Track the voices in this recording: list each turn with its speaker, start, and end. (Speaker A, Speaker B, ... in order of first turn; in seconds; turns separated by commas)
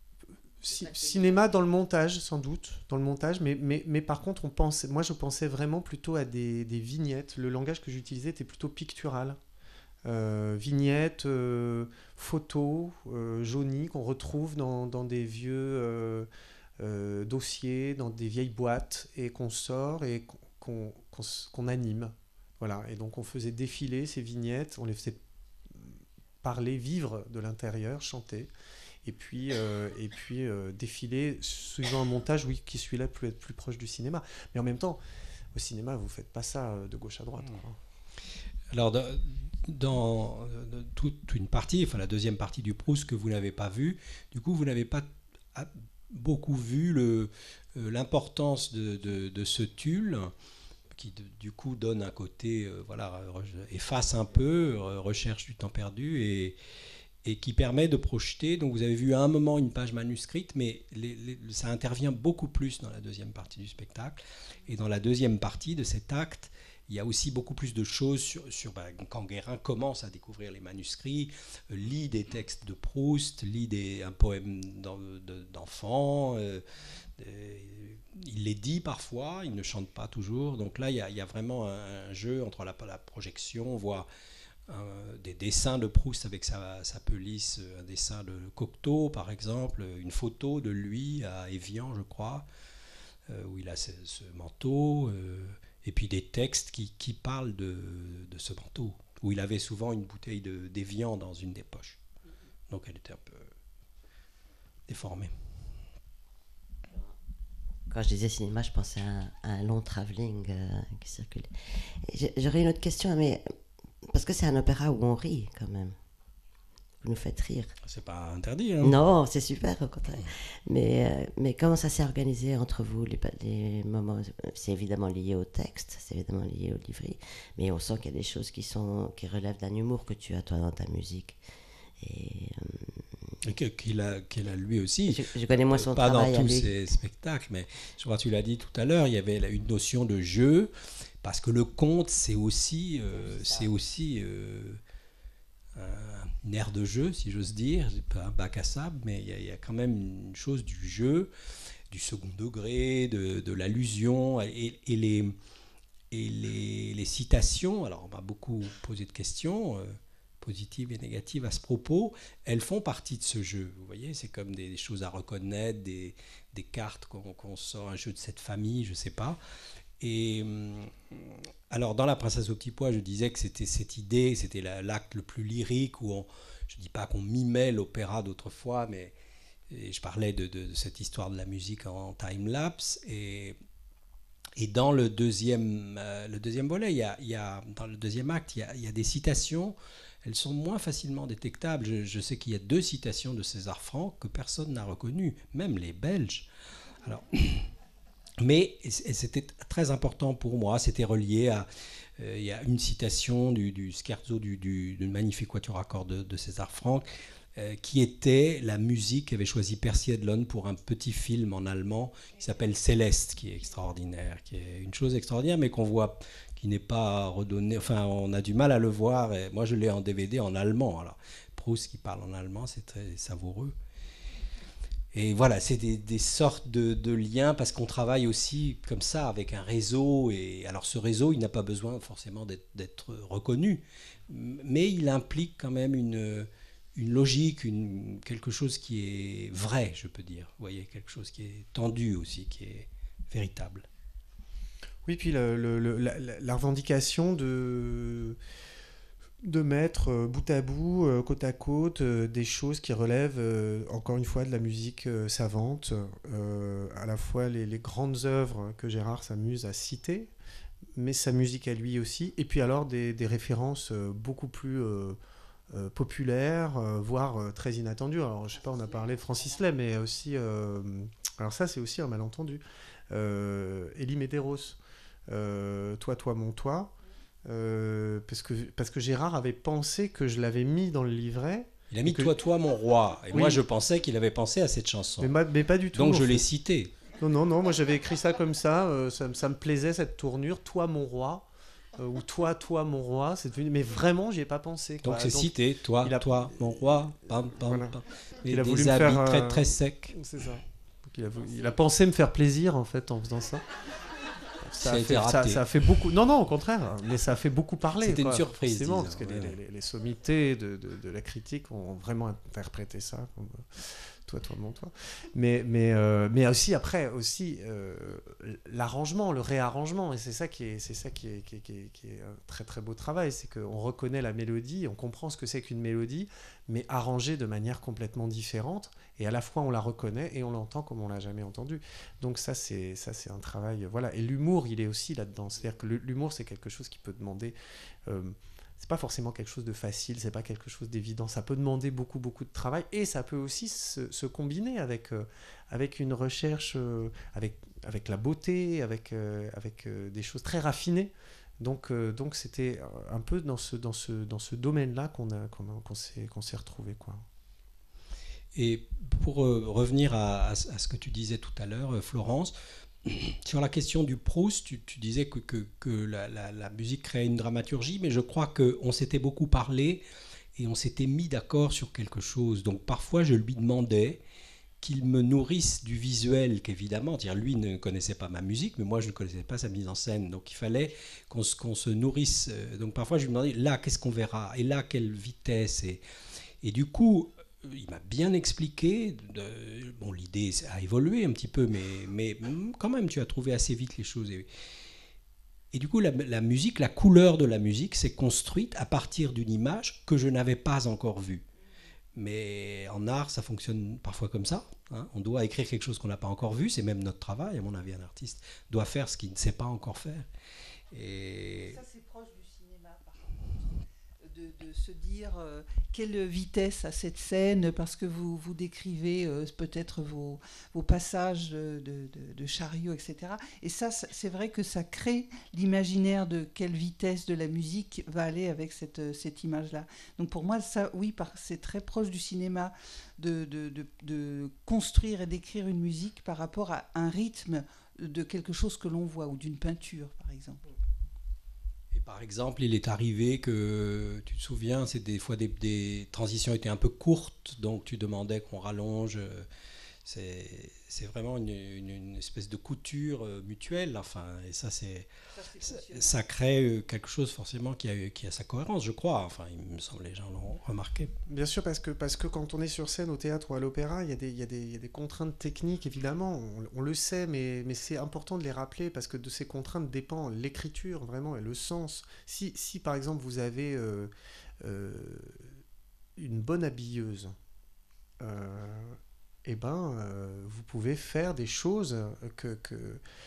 Speaker A: 0.6-9.4, Speaker B: 0.7-1.6, Speaker A: 10.0-16.3, Speaker A: 16.8-28.5, Speaker A: 29.0-35.0, Speaker A: 35.5-37.8, Speaker C: 38.7-50.3, Speaker C: 50.9-56.6, Speaker C: 57.2-76.6, Speaker C: 77.2-84.1, Speaker C: 84.7-92.5, Speaker C: 93.3-102.0, Speaker C: 102.7-103.5, Speaker C: 104.9-105.3, Speaker B: 107.9-113.5, Speaker B: 114.0-116.0, Speaker B: 117.0-117.7, Speaker C: 117.8-119.0, Speaker B: 118.8-131.4, Speaker B: 132.0-133.3, Speaker C: 133.4-140.7, Speaker B: 135.1-136.7, Speaker C: 141.2-144.8, Speaker B: 143.1-143.7, Speaker C: 145.7-151.3, Speaker C: 151.9-155.3, Speaker C: 156.1-169.4, Speaker C: 170.0-179.1, Speaker C: 179.7-183.6, Speaker C: 184.6-196.5, Speaker C: 197.0-197.7, Speaker C: 198.4-201.7, Speaker C: 202.2-223.7, Speaker C: 225.1-243.9, Speaker A: 245.0-248.4, Speaker A: 249.4-260.3, Speaker A: 260.9-265.2, Speaker A: 265.7-276.9, Speaker B: 268.5-269.6, Speaker A: 277.4-282.3, Speaker C: 281.9-285.3, Speaker A: 283.3-283.6, Speaker A: 285.2-286.5, Speaker C: 285.9-286.9, Speaker A: 287.1-303.7, Speaker C: 295.0-300.2, Speaker A: 304.6-337.5, Speaker C: 304.8-305.6, Speaker C: 308.0-309.6, Speaker A: 338.1-357.2, Speaker C: 358.5-370.0, Speaker C: 370.6-374.2, Speaker C: 374.8-386.0, Speaker C: 386.6-394.5, Speaker C: 395.7-401.4, Speaker C: 402.1-410.2, Speaker C: 410.9-411.8, Speaker D: 411.6-413.4, Speaker D: 414.2-440.6, Speaker C: 441.9-449.4, Speaker C: 450.0-461.1, Speaker D: 455.3-456.2, Speaker A: 461.3-475.6, Speaker A: 476.2-477.4, Speaker A: 478.2-483.0